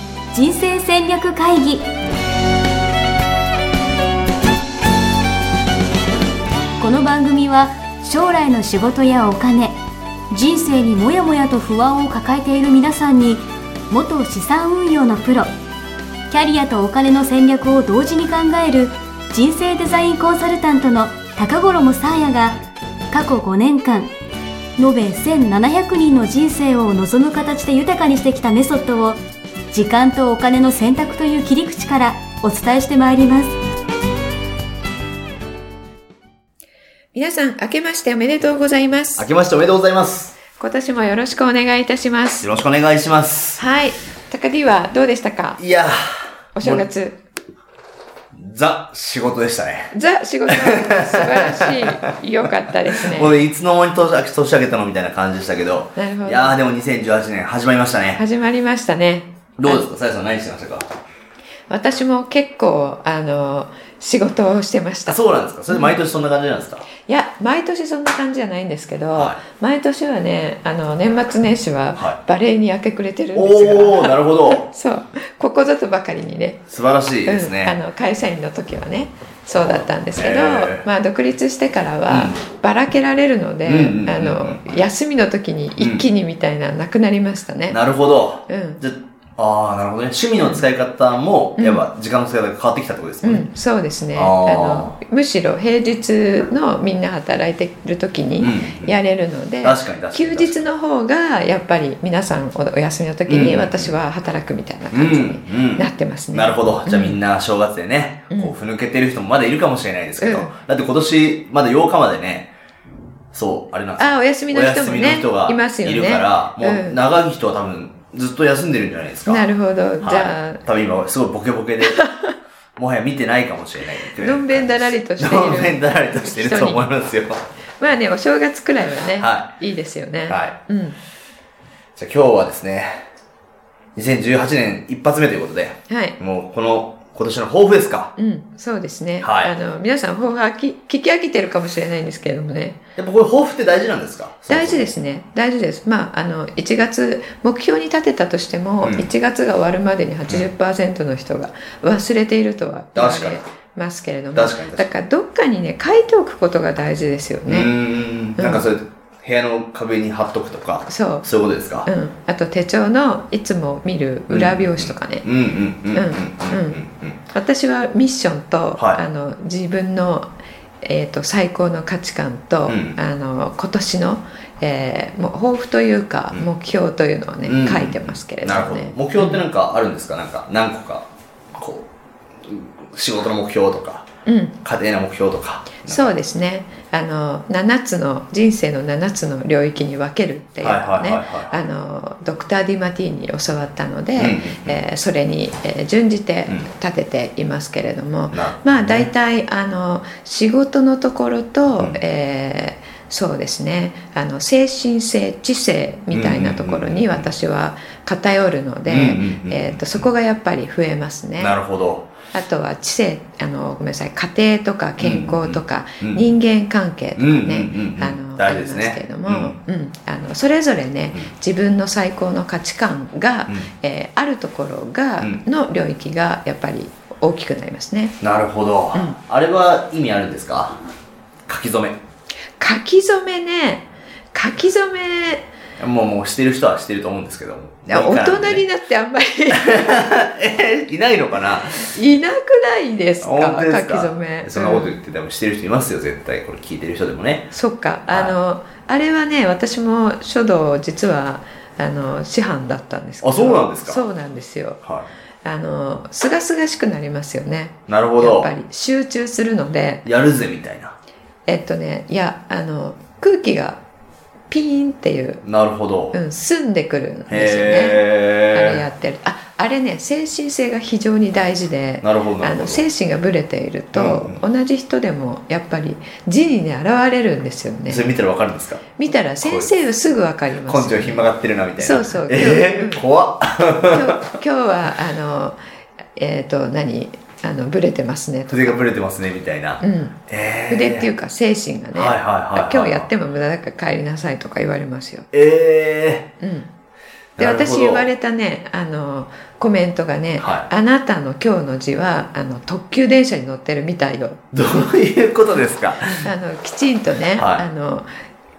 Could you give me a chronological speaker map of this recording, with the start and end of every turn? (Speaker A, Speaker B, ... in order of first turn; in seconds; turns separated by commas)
Speaker A: 0.3-1.9, Speaker A: 6.8-9.8, Speaker A: 10.3-15.5, Speaker A: 16.3-22.6, Speaker A: 23.1-24.1, Speaker A: 24.8-29.2, Speaker A: 29.7-33.5, Speaker B: 37.1-39.3, Speaker C: 39.2-40.4, Speaker B: 40.5-42.5, Speaker C: 42.4-43.6, Speaker B: 43.6-45.6, Speaker C: 45.6-46.9, Speaker B: 46.5-47.2, Speaker C: 48.3-49.9, Speaker B: 49.9-53.4, Speaker C: 50.5-52.1, Speaker C: 52.9-58.2, Speaker B: 56.0-56.6, Speaker B: 58.2-59.8, Speaker C: 59.6-60.9, Speaker B: 61.7-66.0, Speaker C: 65.1-66.9, Speaker B: 67.0-76.7, Speaker C: 69.1-69.4, Speaker C: 73.3-74.7, Speaker C: 76.7-77.8, Speaker B: 77.2-87.8, Speaker C: 80.1-80.9, Speaker C: 82.1-82.4, Speaker C: 83.6-84.8, Speaker C: 85.8-86.0, Speaker C: 87.7-93.5, Speaker B: 88.5-88.8, Speaker B: 90.4-90.6, Speaker B: 91.6-91.8, Speaker B: 93.2-107.2, Speaker C: 94.1-95.0, Speaker C: 98.4-99.0, Speaker C: 99.6-100.6, Speaker C: 103.3-103.9, Speaker C: 104.9-112.5, Speaker B: 110.2-110.5, Speaker C: 113.3-119.5, Speaker B: 114.0-117.0, Speaker B: 119.2-120.6, Speaker C: 120.0-122.0, Speaker B: 121.8-122.3, Speaker C: 122.8-127.5, Speaker B: 124.1-126.9, Speaker B: 127.8-131.0, Speaker C: 129.2-129.6, Speaker C: 130.3-130.6, Speaker C: 131.9-133.0, Speaker C: 133.9-138.1, Speaker B: 135.9-136.2, Speaker B: 138.2-142.8, Speaker C: 139.2-139.5, Speaker C: 142.9-144.9, Speaker B: 144.5-157.7, Speaker C: 148.8-149.1, Speaker C: 152.9-153.4, Speaker C: 154.3-154.9, Speaker C: 157.5-161.9, Speaker B: 158.3-158.7, Speaker B: 160.9-161.2, Speaker B: 161.8-165.2, Speaker C: 164.3-167.2, Speaker B: 165.9-179.4, Speaker C: 168.8-169.0, Speaker C: 172.7-173.0, Speaker C: 177.4-181.9, Speaker C: 182.4-184.1, Speaker B: 184.2-184.6, Speaker C: 184.6-186.1, Speaker B: 185.8-211.6, Speaker C: 190.6-191.5, Speaker C: 194.2-194.8, Speaker C: 198.3-199.1, Speaker C: 206.1-207.3, Speaker C: 208.8-210.1, Speaker C: 211.4-212.1, Speaker B: 212.3-228.2, Speaker C: 215.0-216.2, Speaker C: 217.2-219.6, Speaker C: 228.2-230.8, Speaker C: 231.5-232.0, Speaker B: 232.6-235.5, Speaker C: 235.8-238.6, Speaker B: 237.9-239.9, Speaker C: 239.5-242.0, Speaker B: 241.7-245.0, Speaker C: 243.2-247.5, Speaker B: 247.5-254.8, Speaker C: 248.1-248.4, Speaker C: 253.2-254.1, Speaker B: 255.4-260.1, Speaker C: 257.9-258.5, Speaker C: 260.0-260.9, Speaker B: 261.4-263.8, Speaker B: 264.5-265.4, Speaker C: 265.4-266.2, Speaker B: 266.1-278.1, Speaker C: 267.3-268.8, Speaker C: 272.0-272.8, Speaker C: 273.9-274.4, Speaker C: 277.9-279.7, Speaker B: 278.9-283.0, Speaker C: 280.6-284.3, Speaker B: 283.9-285.6, Speaker B: 286.1-288.8, Speaker C: 288.5-291.1, Speaker B: 289.8-290.2, Speaker B: 290.7-295.3, Speaker C: 291.9-293.1, Speaker C: 295.3-296.3, Speaker B: 296.4-296.7, Speaker C: 297.4-298.1, Speaker B: 297.4-304.4, Speaker C: 300.4-300.7, Speaker C: 304.5-306.3, Speaker B: 306.2-308.1, Speaker C: 307.3-307.6